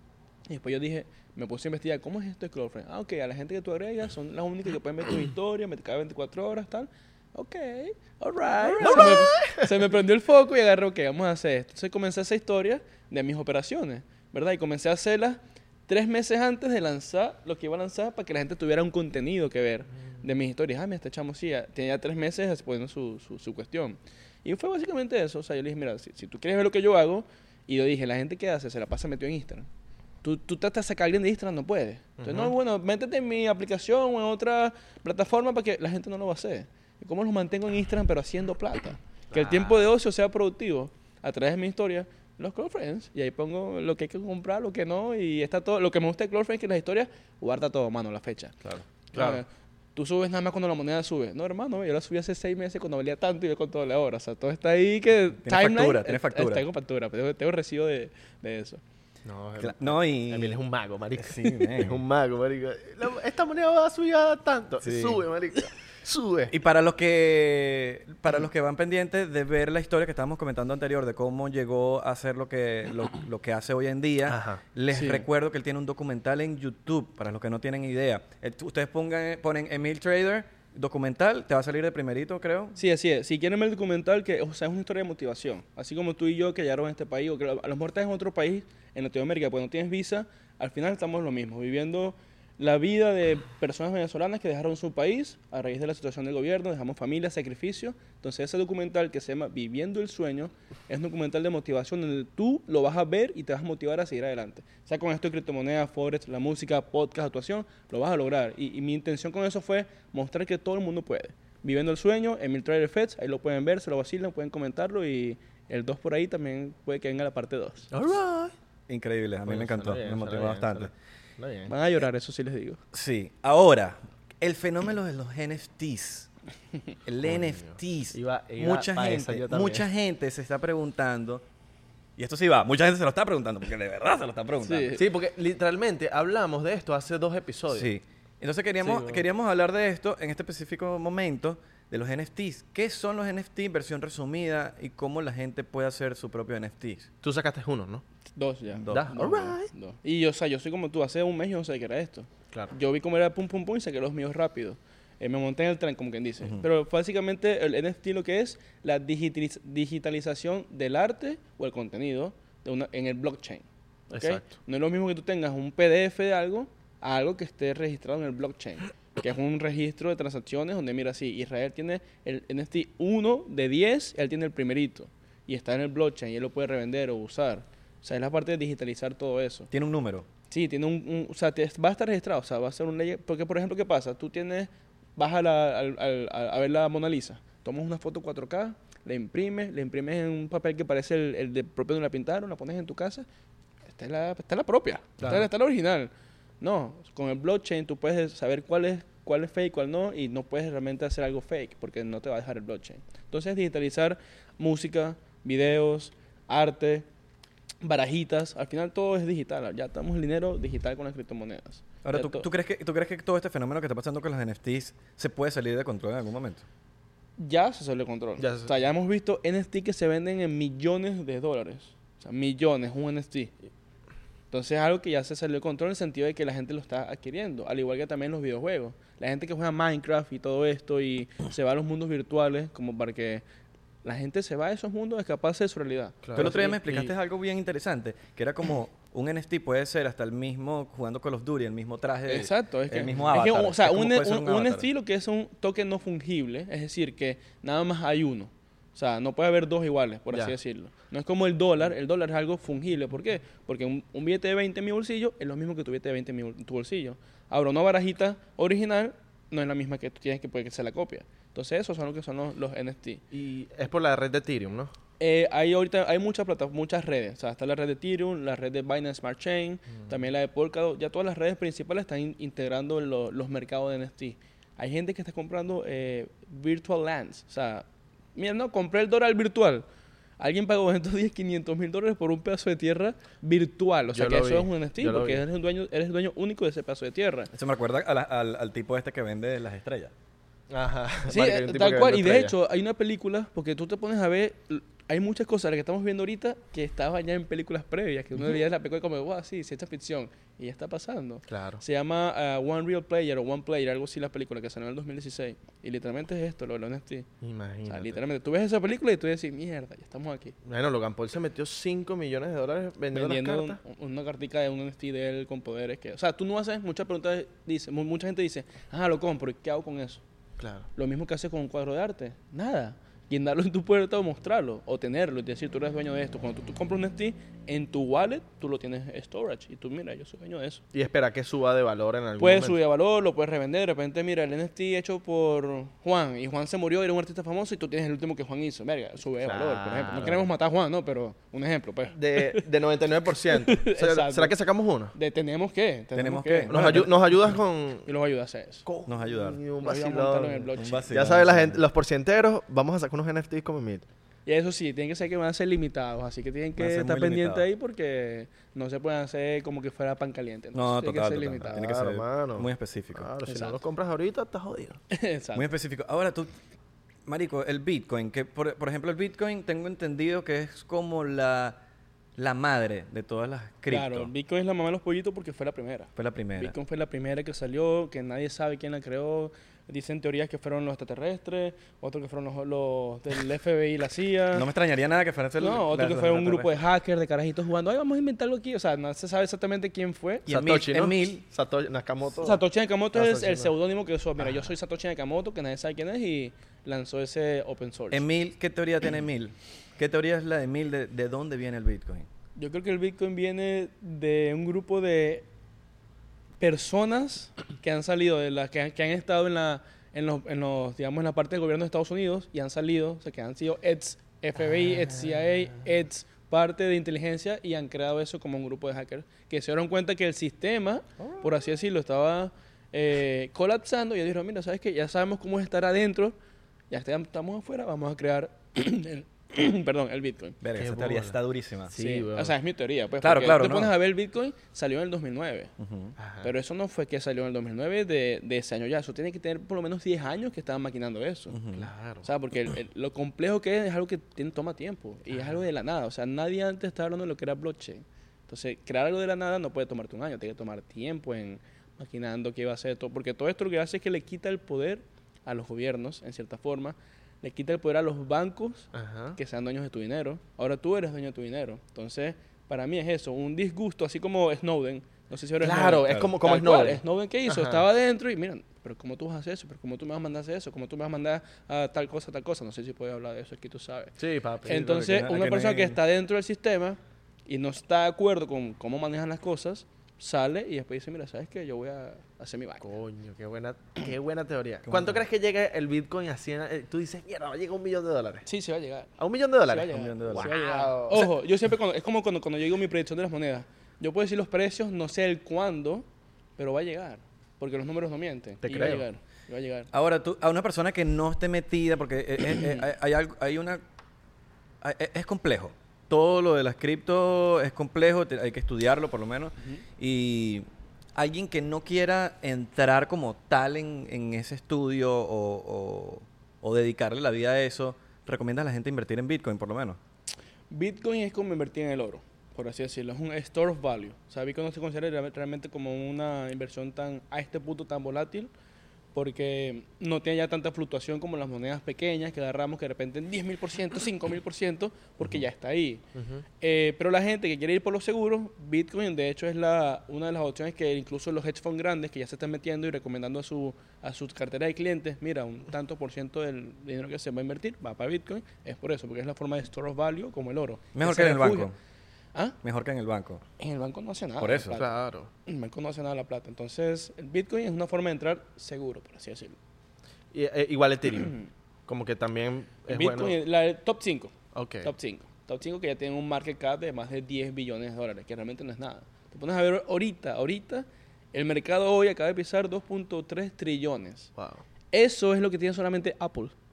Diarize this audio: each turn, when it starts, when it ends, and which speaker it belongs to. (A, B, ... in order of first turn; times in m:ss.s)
0:00.5-0:29.7 A
0:08.8-0:09.6 B
0:30.2-0:48.5 A
0:32.2-0:32.5 B
0:39.3-0:39.8 B
0:49.1-0:49.4 B
0:49.1-0:58.8 A
0:55.4-0:56.6 C
0:59.2-1:06.5 B
0:59.6-1:00.6 C
1:01.2-1:02.0 C
1:04.8-1:05.2 C
1:06.5-1:22.8 C
1:14.3-1:14.6 B
1:14.9-1:15.2 A
1:22.8-1:57.9 A
1:57.9-1:58.5 B
1:58.9-2:00.9 C
1:59.4-2:01.7 B
2:01.7-2:02.8 A
2:02.9-2:06.3 C
2:07.0-2:11.4 C
2:07.2-2:09.8 B
2:12.2-2:14.9 C
2:14.6-2:15.0 A
2:15.0-2:17.9 B
2:17.7-2:27.1 C
2:18.8-2:19.2 B
2:27.2-2:28.0 B
2:28.4-2:43.6 A
2:28.8-2:29.5 C
2:28.9-2:29.7 B
2:44.1-2:44.5 B
2:44.2-2:59.7 A
2:59.7-3:00.3 C
3:00.5-3:13.2 A
3:13.9-3:27.0 A
3:15.2-3:15.5 B
3:27.8-3:32.5 A
3:32.0-3:36.6 C
3:37.4-3:43.5 A
3:38.4-3:38.7 B
3:44.5-3:53.4 A
3:54.0-3:57.1 A
3:56.2-3:56.5 B
3:56.3-4:04.9 C
4:02.3-4:23.2 A
4:23.3-4:24.9 B
4:25.2-4:39.8 A
4:40.4-4:47.5 A
4:44.1-4:45.4 B
4:47.5-4:50.1 C
4:50.7-4:52.5 B
4:51.3-5:07.3 A
5:01.5-5:01.8 B
5:07.4-5:08.2 B
5:07.9-5:10.5 A
5:10.6-5:13.8 B
5:13.1-5:20.2 A
5:20.6-5:20.9 B
5:21.0-5:30.8 A
5:30.9-5:32.8 B
5:32.4-5:42.6 A
5:39.4-5:40.5 B
5:42.1-5:45.1 B
5:43.6-5:44.5 A
5:45.1-5:47.1 A
5:46.1-5:47.1 C
5:46.7-5:48.1 B
5:48.0-5:48.8 A
5:48.8-5:54.0 B
5:49.0-5:49.6 C
5:49.8-5:51.1 A
5:50.7-5:51.8 C
5:54.4-6:01.8 A
5:56.8-5:57.6 C
6:00.7-6:03.3 C
6:01.7-6:05.0 B
6:03.4-6:03.8 A
6:05.1-6:05.7 A
6:05.5-6:06.5 C
6:07.2-6:11.8 C
6:12.4-6:14.3 C
6:13.9-6:24.7 A
6:16.2-6:16.7 C
6:24.5-6:26.7 C
6:25.6-6:30.5 A
6:30.4-6:31.4 C
6:30.5-6:33.7 B
6:32.4-6:38.2 A
6:38.1-6:42.3 C
6:42.6-6:45.4 A
6:46.6-7:06.3 A
6:55.0-6:55.3 B
7:06.9-7:10.6 A
7:10.6-7:11.9 C
7:10.8-7:11.4 B
7:11.9-7:12.5 B
7:12.0-7:15.7 A
7:13.2-7:13.9 C
7:15.8-7:16.1 C
7:16.2-7:16.5 B
7:16.4-7:21.6 A
7:21.5-7:21.9 C
7:21.7-7:22.3 B
7:22.2-7:54.1 A
7:25.3-7:25.6 B
7:38.9-7:39.4 B
7:45.6-7:47.8 B
7:54.2-7:54.9 B
7:54.6-8:02.8 A
7:54.7-7:56.0 C
8:02.8-8:08.5 B
8:04.8-8:05.2 C
8:08.4-8:09.1 A
8:09.2-8:11.3 B
8:09.7-8:16.0 A
8:09.9-8:10.5 C
8:16.6-8:19.9 A
8:18.6-8:19.0 B
8:19.9-8:23.8 C
8:22.6-8:22.8 A
8:24.8-8:40.0 C
8:40.7-8:48.5 A
8:49.1-8:56.0 A
8:56.1-8:56.4 B
8:56.6-9:11.7 A
9:10.9-9:11.7 C
9:12.6-9:13.4 C
9:13.6-9:14.9 A
9:14.4-9:14.8 C
9:14.7-9:15.3 B
9:15.4-9:19.6 A
9:20.3-9:21.4 B
9:21.9-9:23.4 B
9:22.9-9:34.3 A
9:24.5-9:24.9 B
9:34.4-9:34.6 B
9:34.9-9:36.5 A